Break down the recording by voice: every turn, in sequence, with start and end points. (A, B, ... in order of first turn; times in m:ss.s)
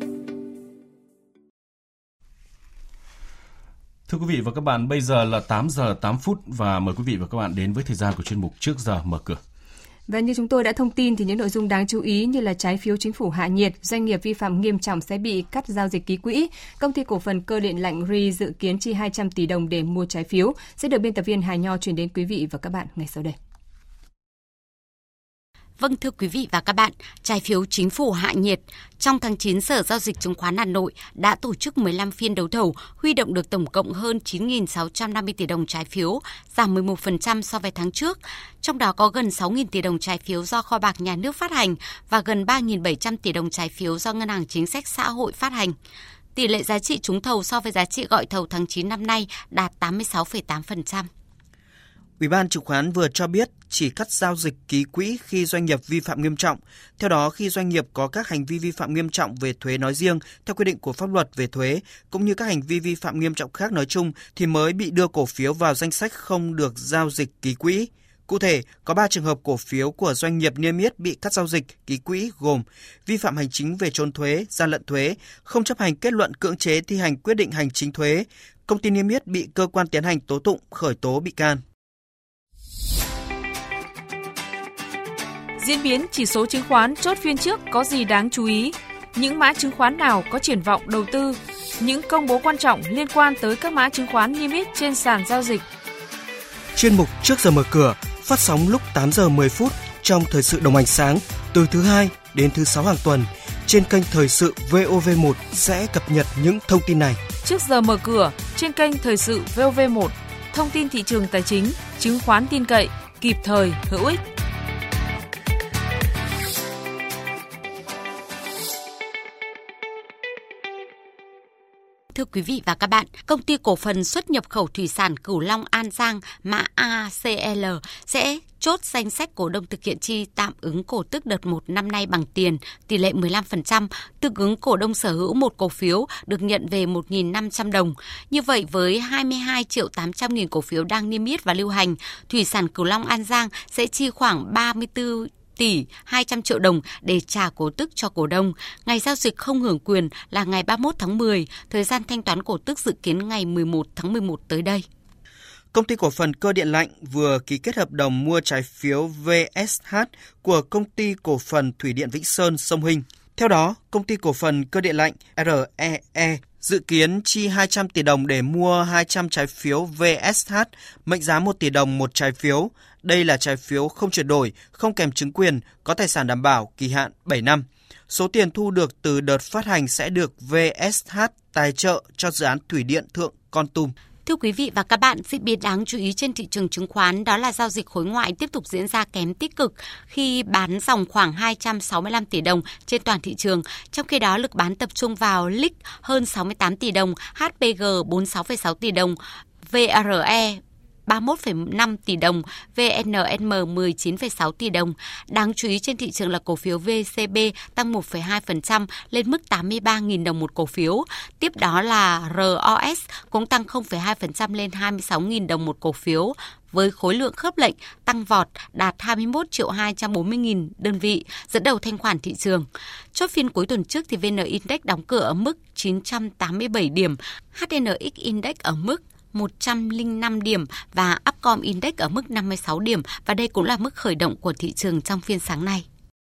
0:04.1-0:09.4 A
0:10.1-0:23.4 B
0:25.8-0:45.7 C
0:46.4-0:51.1 C
0:52.2-1:21.6 D
1:25.6-1:35.6 E
1:36.8-1:47.2 D
1:47.4-1:54.2 E
2:02.1-2:34.8 C
2:35.7-3:03.9 D
3:04.2-3:55.8 C